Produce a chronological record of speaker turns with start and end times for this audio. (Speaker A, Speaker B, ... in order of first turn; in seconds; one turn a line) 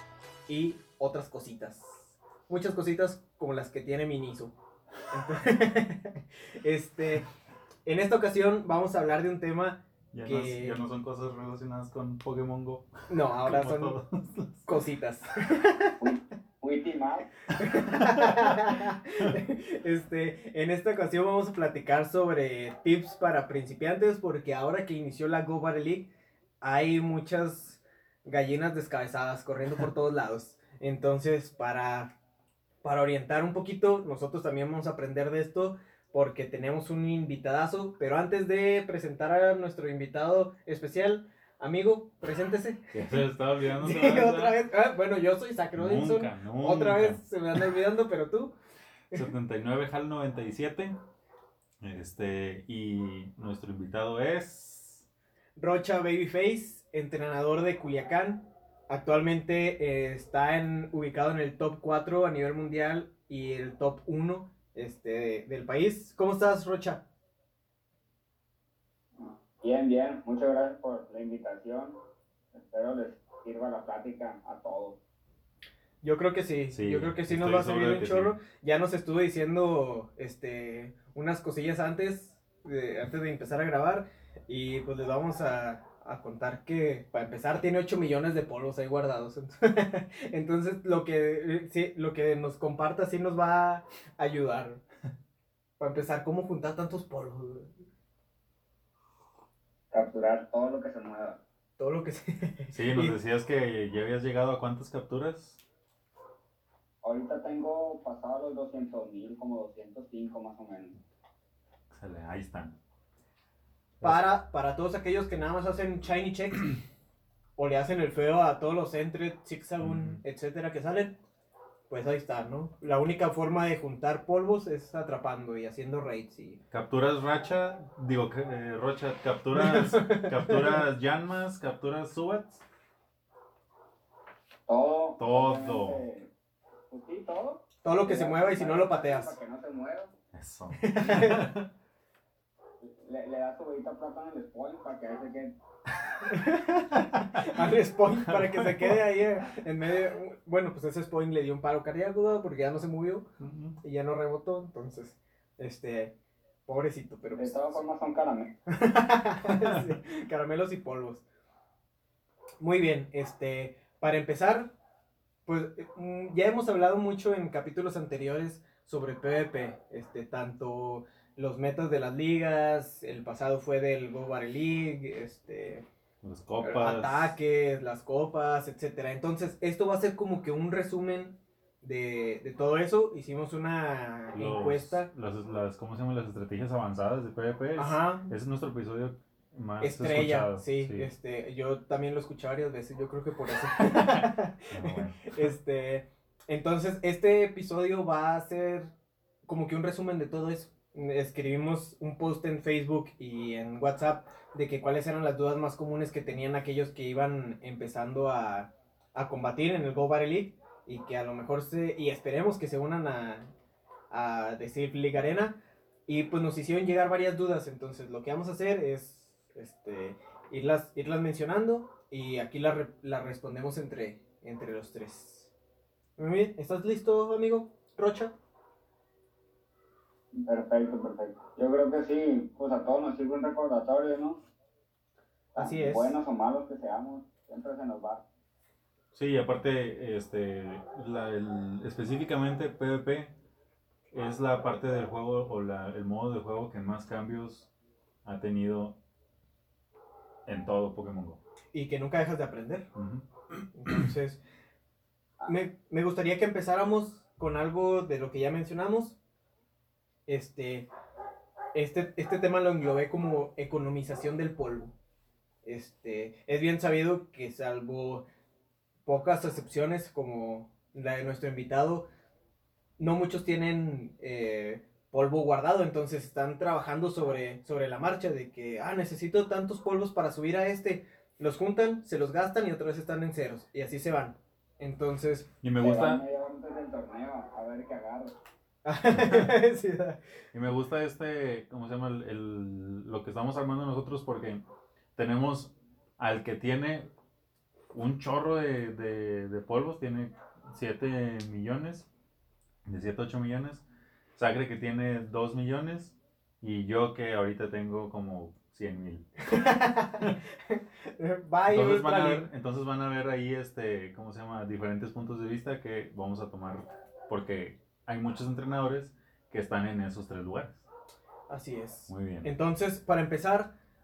Speaker A: 0.5-4.5
Speaker A: 5.1-7.3
Speaker A: 7.8-10.8
Speaker B: 10.1-14.7
Speaker A: 13.1-14.0
Speaker A: 14.7-16.0
Speaker C: 16.0-17.3
Speaker A: 17.6-26.1
Speaker B: 17.7-18.7
Speaker A: 26.6-32.1
Speaker A: 32.8-43.2
Speaker B: 42.9-44.6
Speaker A: 43.8-48.5
Speaker B: 45.7-47.6
Speaker B: 49.1-51.0
Speaker B: 51.8-55.0
Speaker A: 55.6-67.0
Speaker C: 69.2-72.0
Speaker C: 72.5-75.0
Speaker A: 76.0-94.8
Speaker B: 76.7-78.3
Speaker A: 95.8-97.7
Speaker C: 99.9-101.4
Speaker A: 101.8-103.2
Speaker B: 102.7-105.6
Speaker C: 107.0-111.0
Speaker B: 111.9-112.8
Speaker A: 114.0-116.8
Speaker A: 117.6-121.2
Speaker B: 119.8-120.2
Speaker A: 121.9-126.6
Speaker B: 126.7-132.6
Speaker A: 129.5-130.8
Speaker C: 134.7-136.3
Speaker B: 135.2-136.0
Speaker C: 136.9-140.1
Speaker A: 137.8-139.3
Speaker B: 140.3-141.7
Speaker A: 140.8-141.5
Speaker C: 142.8-145.5
Speaker A: 146.2-153.2
Speaker B: 148.3-149.0
Speaker B: 153.4-153.8
Speaker A: 153.8-156.1
Speaker A: 156.7-157.8
Speaker C: 157.3-158.5
Speaker A: 158.7-161.2
Speaker B: 159.5-159.9
Speaker A: 162.6-164.7
Speaker A: 165.4-175.8
Speaker B: 176.2-177.3
Speaker A: 176.6-185.1
Speaker B: 184.3-191.1
Speaker A: 187.8-188.3
Speaker A: 189.8-198.9
Speaker B: 193.9-195.5
Speaker A: 199.5-213.5
Speaker A: 214.1-225.5
Speaker A: 226.2-228.3
Speaker C: 230.3-234.4
Speaker C: 235.5-238.2
Speaker A: 235.6-236.2
Speaker B: 239.1-243.3
Speaker B: 244.1-247.7
Speaker B: 248.2-249.0
Speaker B: 250.4-251.4
Speaker A: 251.7-252.8
Speaker B: 252.9-253.3
Speaker A: 253.7-254.4
Speaker A: 255.4-259.2
Speaker A: 260.3-260.9
Speaker A: 261.7-264.9
Speaker A: 265.6-268.2
Speaker A: 269.0-272.1
Speaker A: 273.0-285.5
Speaker B: 285.6-286.2
Speaker C: 285.8-288.3
Speaker A: 288.8-290.2
Speaker B: 289.1-289.5
Speaker B: 290.5-294.6
Speaker B: 295.1-297.1
Speaker B: 297.9-302.1
Speaker B: 302.9-303.8
Speaker B: 304.4-309.2
Speaker A: 309.4-312.4
Speaker B: 311.7-320.8
Speaker A: 321.5-323.7
Speaker B: 322.1-322.5